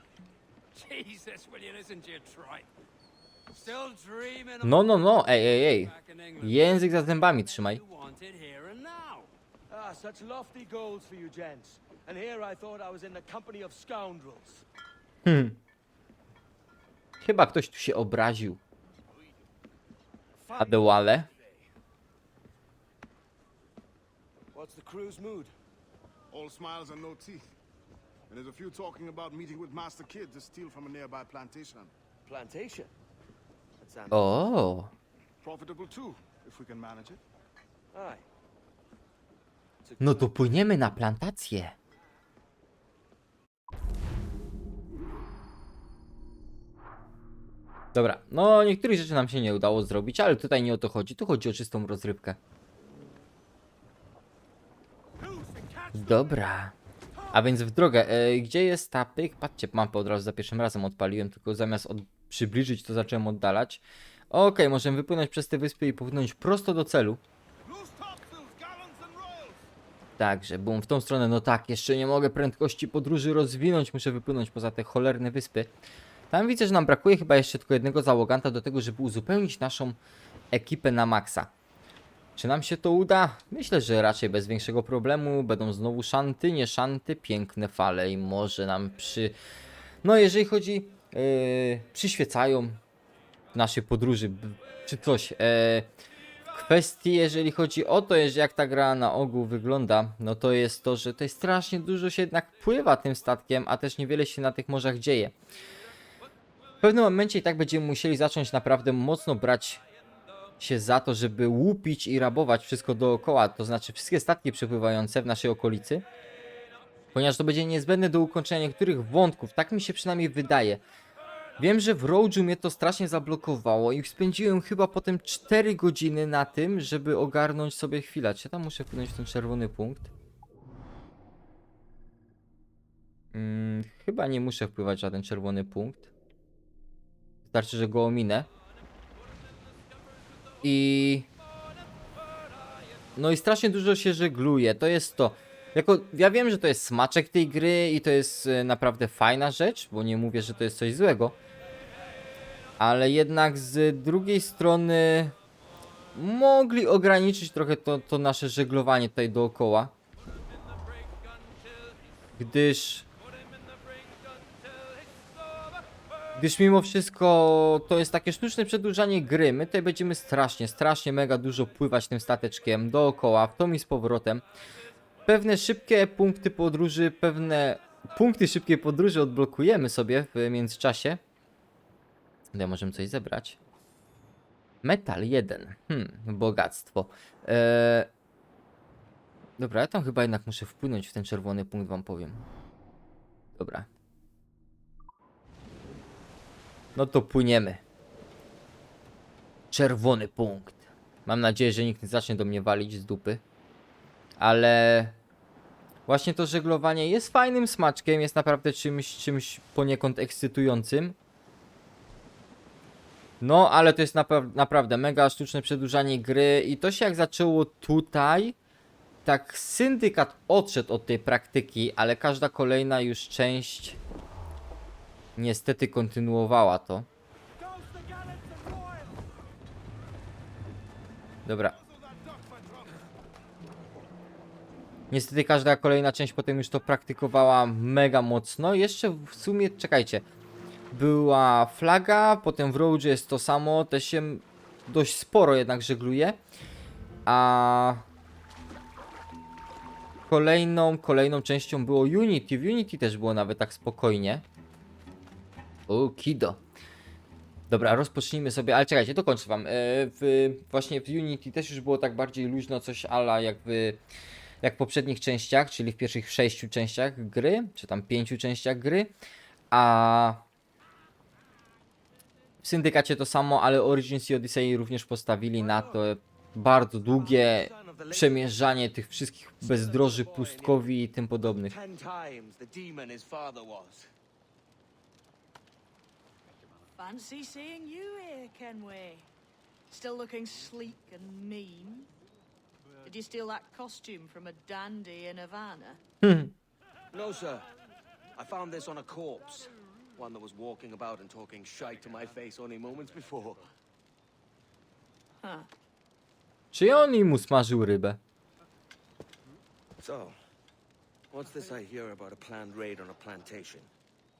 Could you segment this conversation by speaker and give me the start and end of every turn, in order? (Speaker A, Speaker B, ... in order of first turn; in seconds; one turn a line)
Speaker A: 0.7-2.7
Speaker B: 3.5-4.6
Speaker A: 3.6-4.6
Speaker C: 4.6-7.8
Speaker A: 5.9-6.8
Speaker A: 7.7-9.3
Speaker B: 9.7-14.6
Speaker C: 15.2-15.6
Speaker C: 17.2-18.6
Speaker B: 20.4-21.6
Speaker C: 20.6-21.3
Speaker B: 24.5-25.5
Speaker D: 26.3-27.5
Speaker D: 28.3-31.9
Speaker B: 32.2-32.9
Speaker B: 33.8-34.3
Speaker C: 34.1-34.9
Speaker D: 35.4-37.2
Speaker B: 37.9-38.2
Speaker B: 39.8-40.3
Speaker C: 40.0-41.8
Speaker C: 47.9-52.4
Speaker E: 55.3-55.8
Speaker C: 55.9-56.7
Speaker C: 57.3-67.2
Speaker D: 67.7-69.6
Speaker C: 70.2-75.7
Speaker C: 76.3-80.0
Speaker C: 80.5-81.5
Speaker C: 82.4-89.3
Speaker C: 90.0-92.8
Speaker C: 93.5-95.9
Speaker C: 96.5-105.3
Speaker C: 106.8-109.8
Speaker C: 110.6-116.0
Speaker C: 117.1-120.8
Speaker C: 121.6-130.1
Speaker C: 133.3-136.1
Speaker C: 137.4-138.5
Speaker C: 140.6-141.3
Speaker C: 143.2-151.4
Speaker C: 152.8-155.3
Speaker C: 156.1-159.9
Speaker A: 160.8-162.0
Speaker C: 162.4-163.1
Speaker A: 163.5-165.8
Speaker C: 166.4-174.4
Speaker C: 175.2-181.2
Speaker C: 182.5-183.6
Speaker C: 184.8-188.1
Speaker C: 189.6-192.5
Speaker C: 193.6-193.9
Speaker C: 196.9-197.8
Speaker C: 199.7-203.4
Speaker C: 204.4-205.2
Speaker C: 206.1-211.2
Speaker C: 213.4-218.6
Speaker C: 219.2-224.0
Speaker C: 225.3-227.1
Speaker E: 227.8-229.0
Speaker C: 231.4-231.8
Speaker D: 231.9-232.9
Speaker C: 235.1-240.2
Speaker C: 240.9-246.4
Speaker C: 247.2-248.0
Speaker C: 250.3-254.4
Speaker C: 255.9-256.6
Speaker C: 257.7-264.0
Speaker C: 264.6-269.1
Speaker C: 269.7-270.4
Speaker C: 272.6-281.7
Speaker B: 275.6-276.0
Speaker B: 277.0-278.5
Speaker B: 279.6-280.8
Speaker B: 281.5-284.1
Speaker E: 287.0-289.3
Speaker E: 289.9-292.1
Speaker E: 293.0-296.0
Speaker C: 296.2-296.5
Speaker B: 297.1-297.7
Speaker B: 298.4-303.6
Speaker C: 306.7-308.2
Speaker B: 310.0-310.4
Speaker B: 311.3-313.9